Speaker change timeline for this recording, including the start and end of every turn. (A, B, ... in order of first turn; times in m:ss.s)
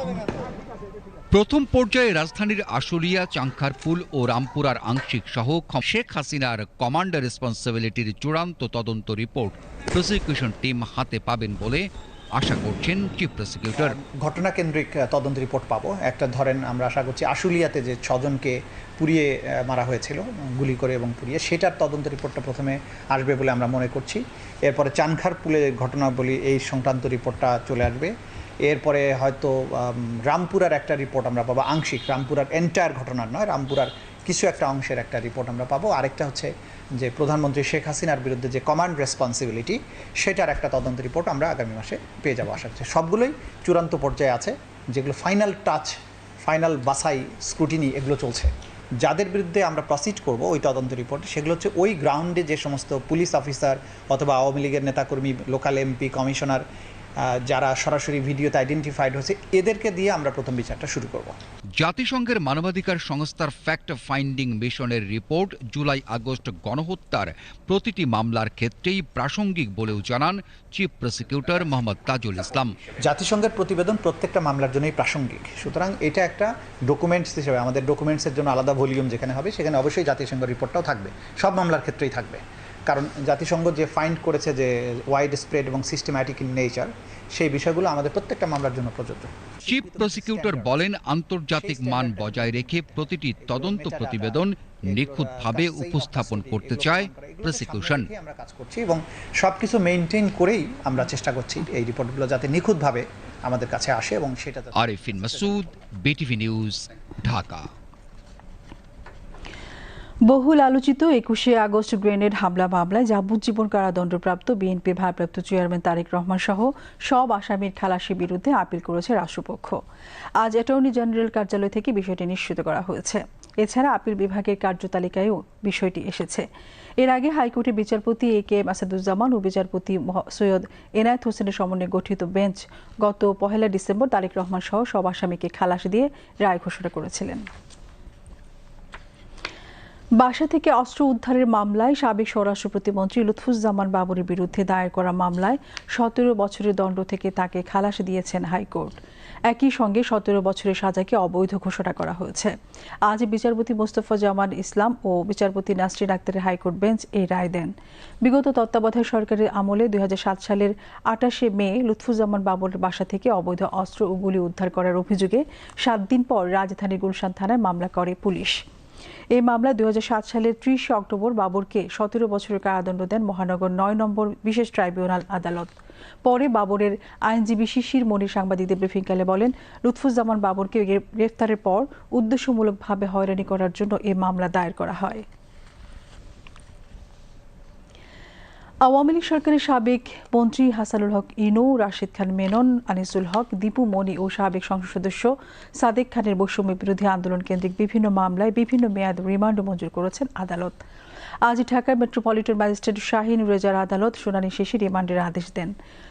0:01.3-0:11.8 A
0:12.4-0:14.0 A
0:13.8-0:28.1 B
0:28.6-0:48.5 B
0:49.0-0:56.6 B
0:57.2-1:01.4 B
1:01.8-1:12.8 A
1:13.0-1:30.8 B
1:29.7-1:38.1 A
1:31.6-1:45.8 B
1:44.8-1:47.7 A
1:50.3-1:59.8 C
2:00.4-2:06.5 C
2:07.0-2:17.5 C
2:20.2-2:29.0 C
2:29.5-2:32.5 C
2:33.1-2:37.7 C
2:38.2-2:48.6 C
2:49.4-2:55.7 C
2:56.2-3:05.2 C
3:08.8-3:20.8 C
3:21.5-3:25.7 C